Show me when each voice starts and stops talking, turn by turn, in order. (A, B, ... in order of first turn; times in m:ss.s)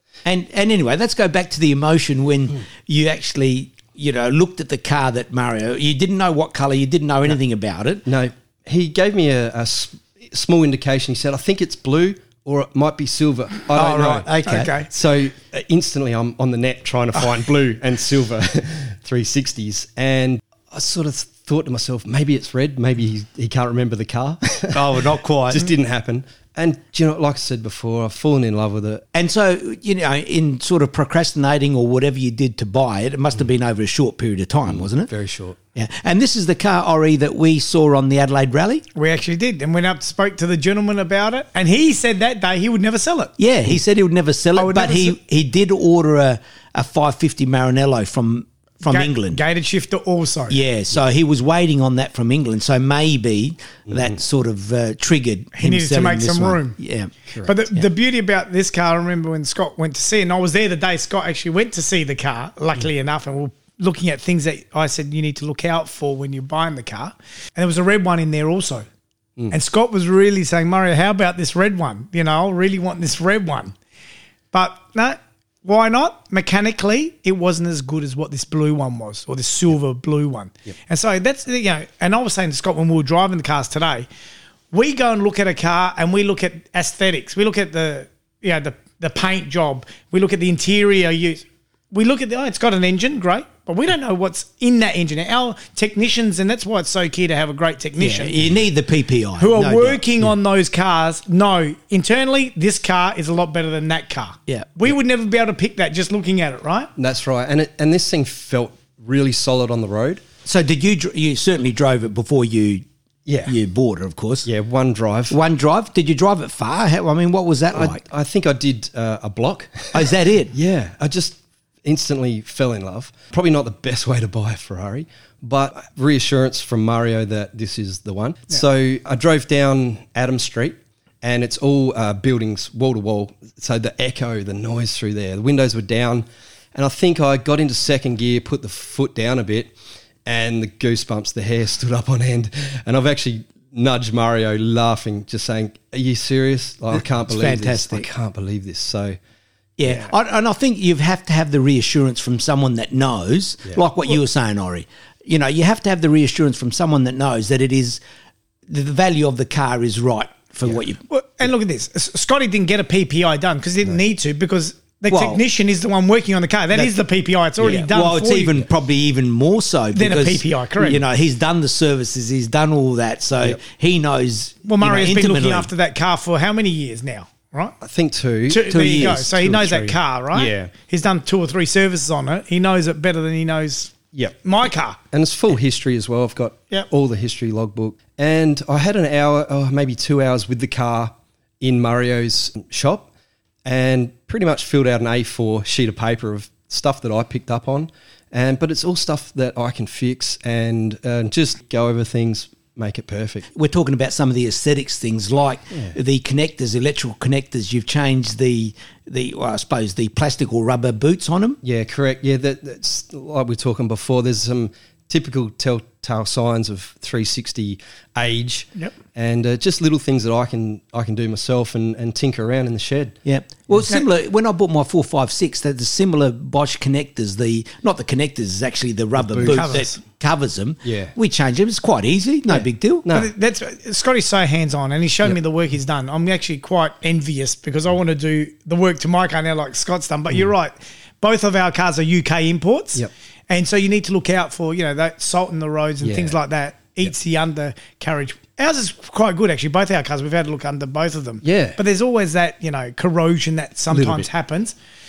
0:00.2-0:08.0 A
0:08.1-0:14.3 B
0:13.7-0:14.7 A
0:14.4-0:14.9 C
0:14.8-0:29.0 B
0:24.7-0:25.7 A
0:29.1-0:35.1 A
0:34.7-0:35.6 B
0:35.8-0:38.8 A
0:39.0-0:43.3 C
0:43.4-0:49.4 A
0:44.6-0:45.2 C
0:48.8-0:50.6 C
0:50.5-0:57.1 A
0:53.9-0:54.1 B
0:55.6-0:56.8 C
0:57.4-1:08.9 C
1:09.5-1:13.8 C
1:14.5-1:24.1 C
1:24.7-1:38.4 C
1:38.0-1:40.0 A
1:39.4-1:46.9 C
1:47.0-1:50.2 B
1:50.4-1:52.8 A
1:53.3-1:53.5 B
1:53.5-1:54.5 A
1:54.4-1:55.4 B
1:55.3-1:58.0 A
1:57.7-2:29.2 B
1:59.9-2:00.5 A
2:27.3-2:28.1 A
2:29.8-2:38.0 A
2:38.7-2:41.0 A
2:41.1-2:48.6 C
2:45.1-2:45.4 A
2:47.6-2:55.7 A
2:49.9-2:51.0 C
2:54.6-2:57.8 C
2:57.8-3:00.7 B
2:58.5-3:05.0 C
2:58.7-2:59.3 A
3:05.1-3:13.1 B
3:13.6-3:23.5 B
3:23.5-3:31.6 A
3:31.6-3:43.2 B
3:43.2-3:53.0 A
3:49.2-3:49.8 B
3:49.5-3:50.0 C
3:50.8-3:51.1 B
3:53.0-3:53.3 B
3:53.1-4:14.8 C
4:06.0-4:06.4 B
4:11.4-4:11.8 B
4:13.9-4:14.3 B